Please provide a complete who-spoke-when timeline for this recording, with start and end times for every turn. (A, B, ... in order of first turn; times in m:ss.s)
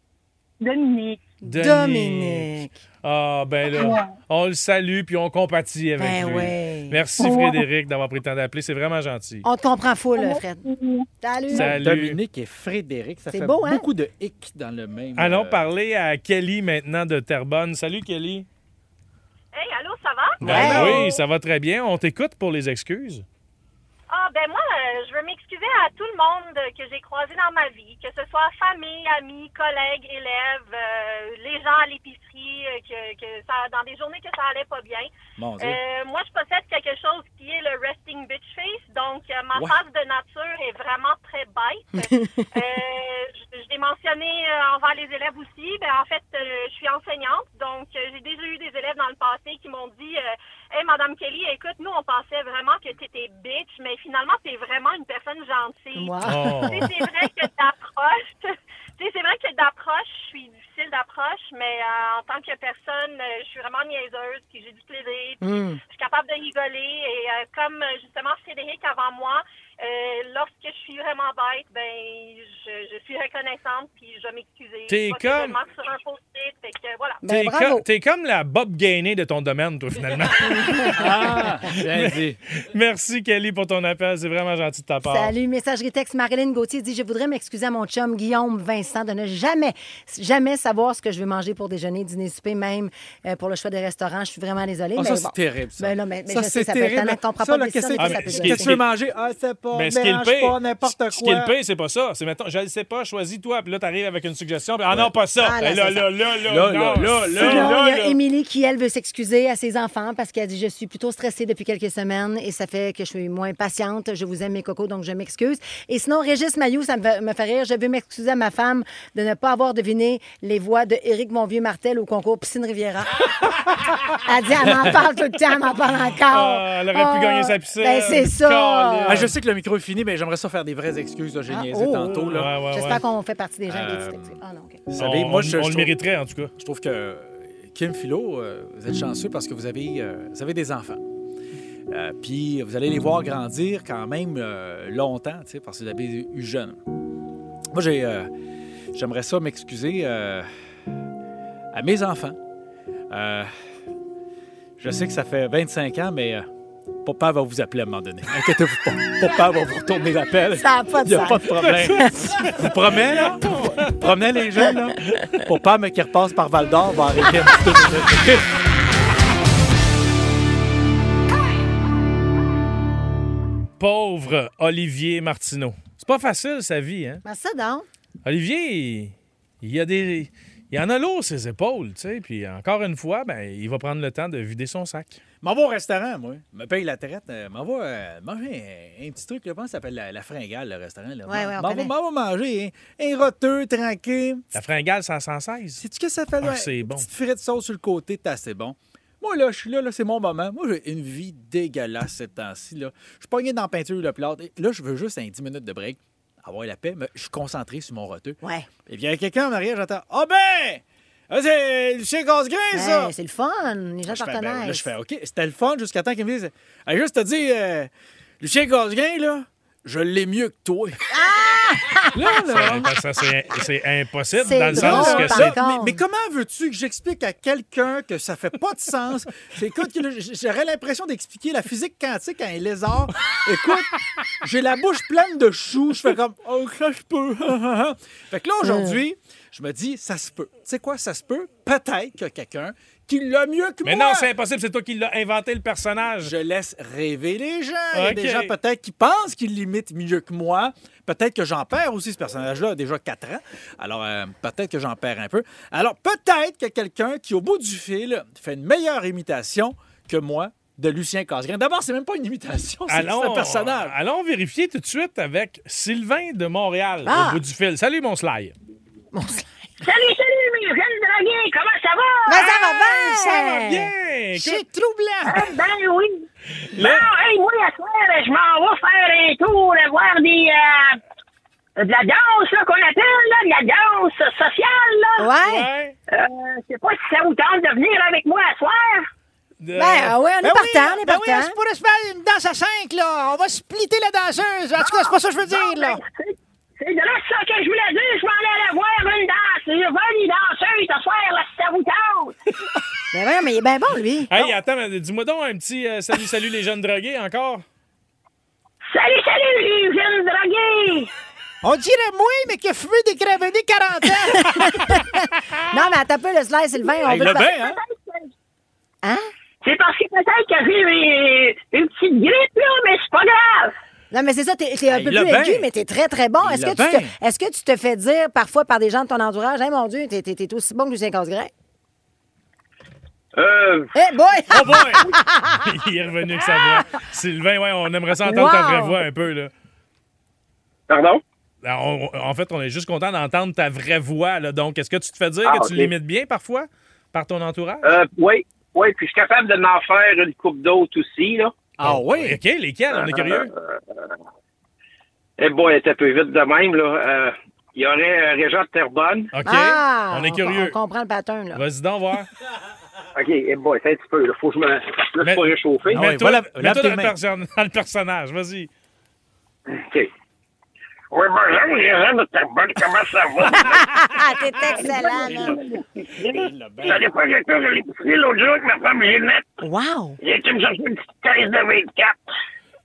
0:00.6-0:01.2 A
0:01.4-0:02.5 B
0:01.4-0:02.8 C
0:03.0-0:09.5 B
0:03.8-0:04.1 A
0:06.0-0:07.0 C
0:07.2-0:07.6 A
0:09.4-0:10.6 C
0:10.2-0:11.6 A
0:11.2-0:11.7 C
0:11.6-0:12.2 B
0:11.6-0:15.7 D
0:13.3-0:13.9 C
0:15.2-0:18.5 B
0:19.5-0:21.2 E
0:20.4-0:23.2 B
0:20.4-0:21.1 C
0:20.5-0:20.8 D
0:24.1-1:17.2 E
0:35.4-0:35.8 D
0:42.0-0:42.4 C
0:56.0-0:56.9 C
0:56.2-0:56.9 B
1:05.4-1:05.8 C
1:14.9-1:15.6 B
1:17.2-1:17.8 C
1:17.3-1:25.3 B
1:20.5-1:21.0 C
1:21.0-1:22.4 D
1:25.0-1:38.8 C
1:35.0-1:41.6 D
1:38.0-1:38.8 B
1:39.7-1:48.2 B
1:45.4-1:46.1 C
1:46.4-1:47.8 D
1:47.4-2:03.2 C
2:04.2-2:09.2 C
2:04.6-2:05.0 D
2:06.3-2:09.3 B
2:09.1-2:12.5 D
2:11.5-2:14.8 C
2:12.1-2:13.0 B
2:13.7-2:15.9 D
2:15.0-2:16.5 B
2:16.6-2:21.0 D
2:21.9-2:26.8 D
2:27.7-2:28.3 D
2:28.9-2:30.5 D
2:31.7-2:32.4 D
2:33.1-2:33.5 D
2:34.8-2:36.5 D
2:37.0-2:48.5 D
2:40.6-2:42.2 C
2:42.0-2:44.0 B
2:53.8-2:57.2 B
2:57.2-2:57.9 C
2:58.2-3:05.2 B
3:05.4-3:14.5 D
3:11.3-3:11.9 C
3:14.5-3:15.8 B
3:15.8-3:33.1 D
3:16.4-3:17.1 B
3:28.4-3:28.7 C
3:32.7-3:34.9 C
3:34.1-3:41.0 D
3:41.1-3:42.2 C
3:42.1-3:43.0 D
3:42.6-3:45.5 B
3:44.4-3:46.0 C
3:44.7-4:04.3 D
3:58.6-3:59.0 C
4:03.8-4:06.3 B
4:06.2-4:24.0 D
4:07.9-4:08.5 B
4:22.9-4:28.5 B
4:27.0-4:27.4 C
4:29.1-4:29.4 C
4:29.8-4:32.5 F
4:32.3-4:33.9 C
4:32.4-4:33.6 D
4:33.4-4:34.6 B
4:34.3-4:35.6 D
4:35.3-4:41.0 F
4:36.7-4:37.1 B
4:41.8-4:45.3 F
4:45.2-4:45.7 C
4:45.5-4:46.0 B
4:46.1-4:49.1 F
4:49.6-4:50.2 B
4:49.8-4:51.6 C
4:50.4-4:56.0 D
4:54.9-5:02.4 F
5:03.1-5:04.4 C
5:04.3-5:07.6 B
5:08.9-5:11.1 F
5:11.6-5:15.2 D
5:14.3-5:17.5 C
5:17.0-5:18.3 F
5:17.0-5:17.8 D
5:19.6-5:23.8 F
5:24.1-5:31.5 C
5:24.9-5:25.7 D
5:26.4-5:27.2 D
5:33.4-5:33.9 G
5:34.0-5:35.6 C
5:34.5-5:35.1 D
5:35.6-5:39.5 B
5:38.2-5:39.0 C
5:40.9-5:41.2 G
5:41.6-5:47.9 B
5:45.4-5:45.9 G
5:47.8-5:51.6 G
5:51.8-5:52.4 D
5:51.8-5:53.5 B
5:52.9-5:54.1 G
5:55.4-5:59.3 G
5:59.3-6:00.8 B
5:59.5-6:01.6 C
6:01.5-6:02.3 B
6:03.2-6:06.0 G
6:05.2-6:08.7 B
6:05.9-6:07.1 D
6:09.7-6:10.1 G
6:11.1-6:13.9 G
6:13.6-6:15.6 C
6:14.8-6:17.1 D
6:16.8-6:19.5 G
6:19.6-6:20.2 C
6:20.2-6:22.2 G